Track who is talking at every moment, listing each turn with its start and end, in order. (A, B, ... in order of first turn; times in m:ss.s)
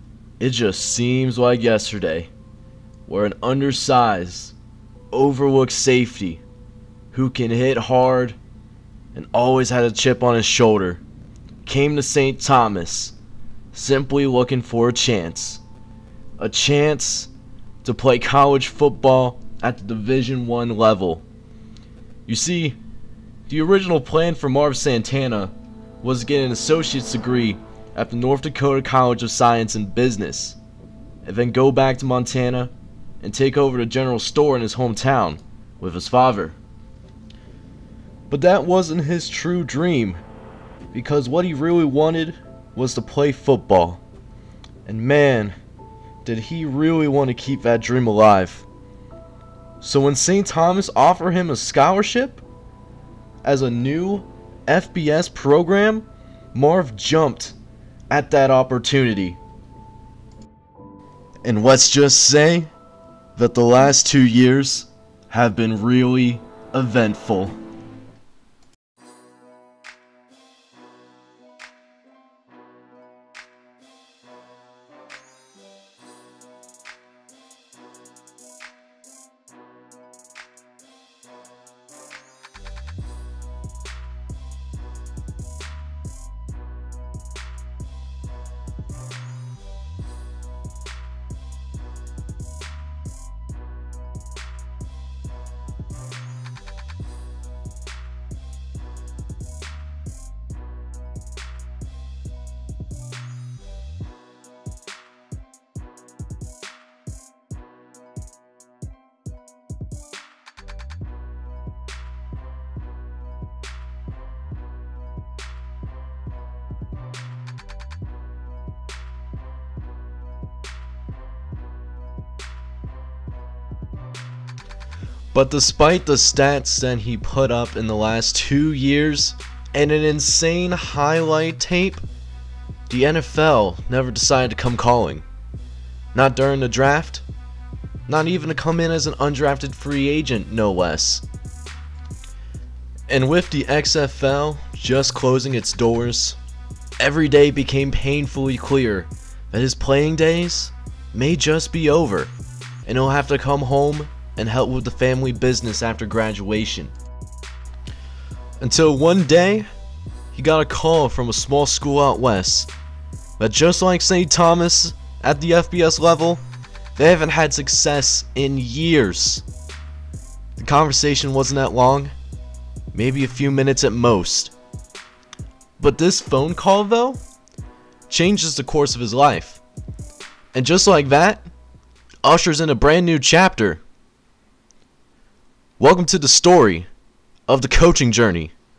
0:00.4-0:02.3 A
0:03.0-0:04.5 A
0:05.1-0:06.4 A
0:07.1-0:08.4 A
0:09.1-0:11.0 A
0:11.6-0:13.1 A
0:13.7-0:15.6 A
0:16.4-0:17.3 A
0:17.8-0:21.2 A
0:22.2-0:22.8 A
0:23.5-0:30.6 A
0:31.2-0:36.6 A
0:38.3-0:40.2 A
0:40.9-0:44.0 A
0:44.8-0:45.5 A
0:46.2-0:48.6 A
0:49.8-0:52.4 A
0:53.4-0:57.5 A
0:58.1-0:59.4 A
1:01.4-1:02.7 A
1:03.4-1:07.6 A
2:05.3-2:12.0 A
2:12.9-2:15.2 A
2:16.1-2:17.2 A
2:18.1-2:21.2 A
2:23.1-2:26.4 A
2:27.0-2:32.3 A
2:32.8-2:36.9 A
2:38.6-2:39.7 A
2:40.3-2:42.7 A
2:43.4-2:46.4 A
2:47.0-2:49.4 A
2:50.6-2:52.1 A
2:52.9-2:54.5 A
2:55.8-2:57.2 A
2:58.1-2:59.6 A
3:00.5-3:01.5 A
3:02.2-3:03.8 A
3:05.8-3:06.9 A
3:07.5-3:08.5 A